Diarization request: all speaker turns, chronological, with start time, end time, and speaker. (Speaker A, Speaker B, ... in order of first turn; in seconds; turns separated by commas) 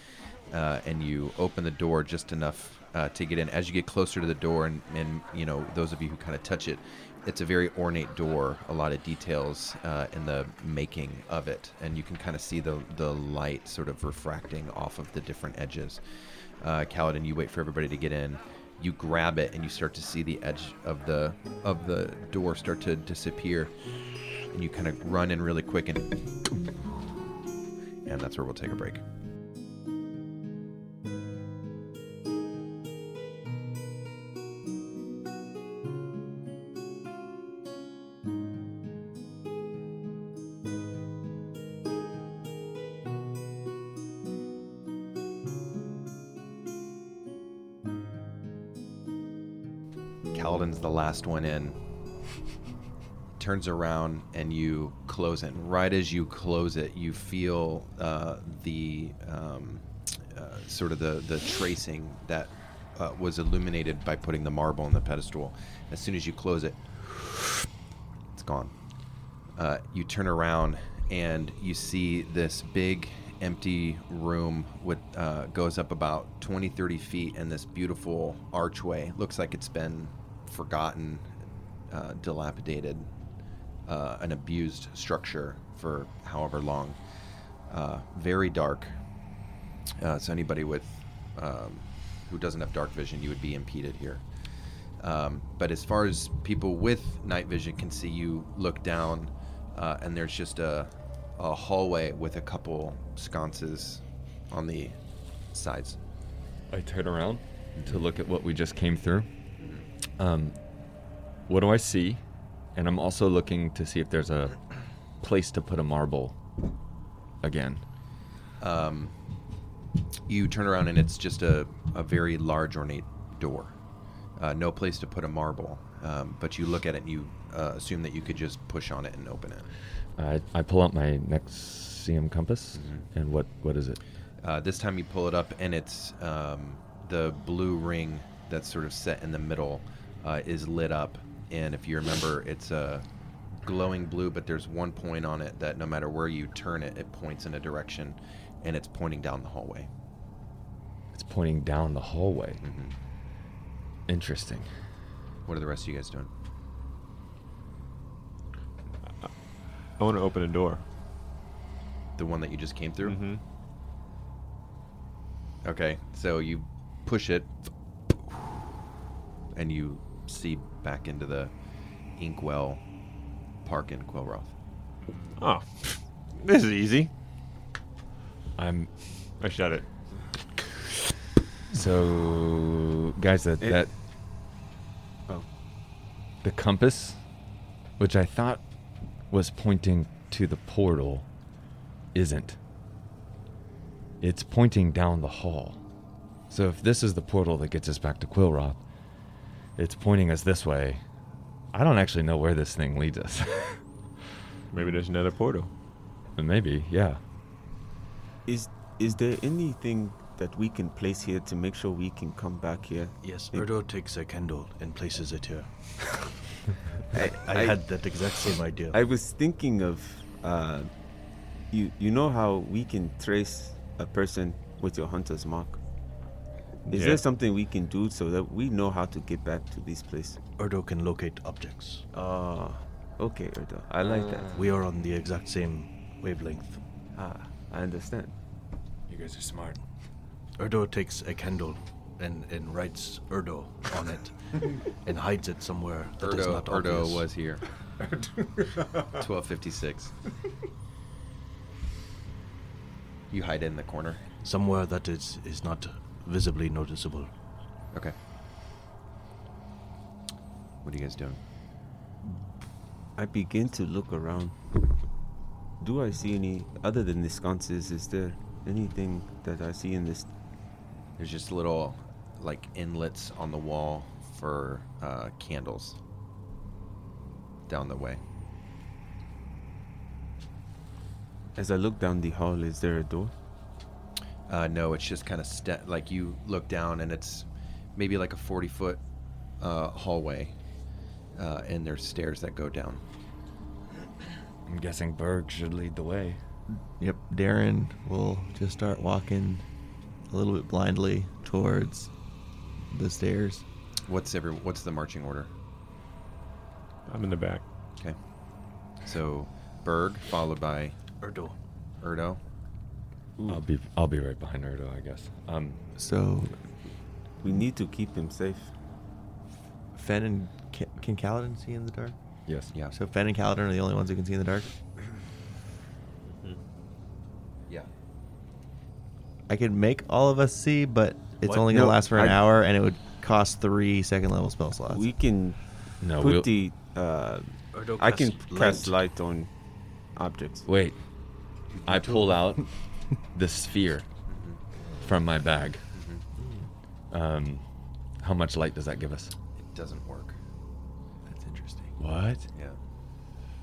Speaker A: 0.5-16.0, Speaker A: 16.6-23.9, Speaker A: 24.5-26.1, Speaker A: 28.1-29.0, Speaker A: 50.3-51.8, Speaker A: 53.4-67.3, Speaker A: 68.3-68.7, Speaker A: 69.6-81.3, Speaker A: 81.9-83.1, Speaker A: 83.9-87.0, Speaker A: 87.7-89.0, Speaker A: 90.0-94.3, Speaker A: 95.0-105.0, Speaker A: 105.5-106.0, Speaker B: 106.7-109.3, Speaker A: 107.8-108.0, Speaker A: 109.6-109.8, Speaker B: 110.2-110.6, Speaker B: 111.5-112.2, Speaker B: 112.8-114.7, Speaker B: 115.2-116.4, Speaker B: 117.4-117.8, Speaker A: 118.6-119.2, Speaker A: 120.3-123.7, Speaker A: 124.4-129.7, Speaker B: 130.2-134.0, Speaker A: 132.8-133.1, Speaker A: 134.4-143.1, Speaker A: 143.6-149.9, Speaker B: 151.1-152.6, Speaker A: 152.6-152.9, Speaker B: 154.1-154.7, Speaker A: 155.5-156.3, Speaker C: 160.0-160.8, Speaker A: 162.2-163.3, Speaker C: 163.0-163.4, Speaker A: 165.6-167.6, Speaker A: 169.5-171.5, Speaker A: 172.2-172.8, Speaker A: 173.6-174.5, Speaker C: 175.4-177.1, Speaker B: 178.6-178.9, Speaker C: 179.4-179.9, Speaker B: 181.7-183.9, Speaker D: 183.6-183.8, Speaker B: 186.4-187.2, Speaker B: 188.0-188.6, Speaker B: 189.3-191.3, Speaker B: 192.1-192.6, Speaker B: 194.2-195.8, Speaker B: 196.5-198.8, Speaker B: 199.8-201.0, Speaker B: 201.7-203.8, Speaker C: 204.7-205.7, Speaker B: 206.3-207.2, Speaker D: 208.5-213.7, Speaker E: 213.2-216.4, Speaker D: 217.1-220.9, Speaker E: 217.2-219.0, Speaker D: 221.7-225.8, Speaker C: 226.9-227.2, Speaker D: 226.9-230.4, Speaker E: 230.6-232.1, Speaker D: 232.1-234.5, Speaker B: 234.0-234.7, Speaker E: 234.5-236.8, Speaker D: 237.2-238.3, Speaker B: 239.1-239.8, Speaker E: 240.6-247.3, Speaker A: 246.2-247.7, Speaker A: 249.1-250.1, Speaker A: 253.3-254.2, Speaker E: 254.4-257.3, Speaker A: 260.8-261.4, Speaker D: 263.2-264.6, Speaker D: 265.8-270.3, Speaker A: 271.2-276.0, Speaker A: 277.7-278.2, Speaker D: 281.6-283.3, Speaker A: 284.5-289.0, Speaker A: 289.6-290.5, Speaker A: 291.4-293.0, Speaker B: 294.7-296.4, Speaker F: 297.0-299.6, Speaker F: 300.3-302.1, Speaker F: 302.9-303.6, Speaker A: 304.1-305.5, Speaker C: 307.1-307.6, Speaker A: 309.0-311.0, Speaker E: 311.2-311.6, Speaker A: 312.0-312.4, Speaker D: 313.4-313.6, Speaker B: 313.5-315.8, Speaker F: 316.0-316.6, Speaker D: 317.4-318.7, Speaker F: 319.9-322.2, Speaker B: 322.5-322.7, Speaker F: 322.9-324.7, Speaker F: 329.5-335.1, Speaker E: 331.4-331.7, Speaker D: 331.6-332.4, Speaker D: 334.9-339.5, Speaker B: 336.0-336.5, Speaker E: 337.7-339.0, Speaker D: 340.1-340.7, Speaker B: 340.7-341.0, Speaker B: 341.8-344.1, Speaker A: 344.3-344.6, Speaker B: 345.0-345.9, Speaker A: 345.9-346.2, Speaker F: 346.4-346.7, Speaker B: 347.1-347.6, Speaker B: 348.2-349.3, Speaker A: 349.6-350.4, Speaker F: 351.3-352.0, Speaker B: 352.0-352.5, Speaker A: 352.5-352.8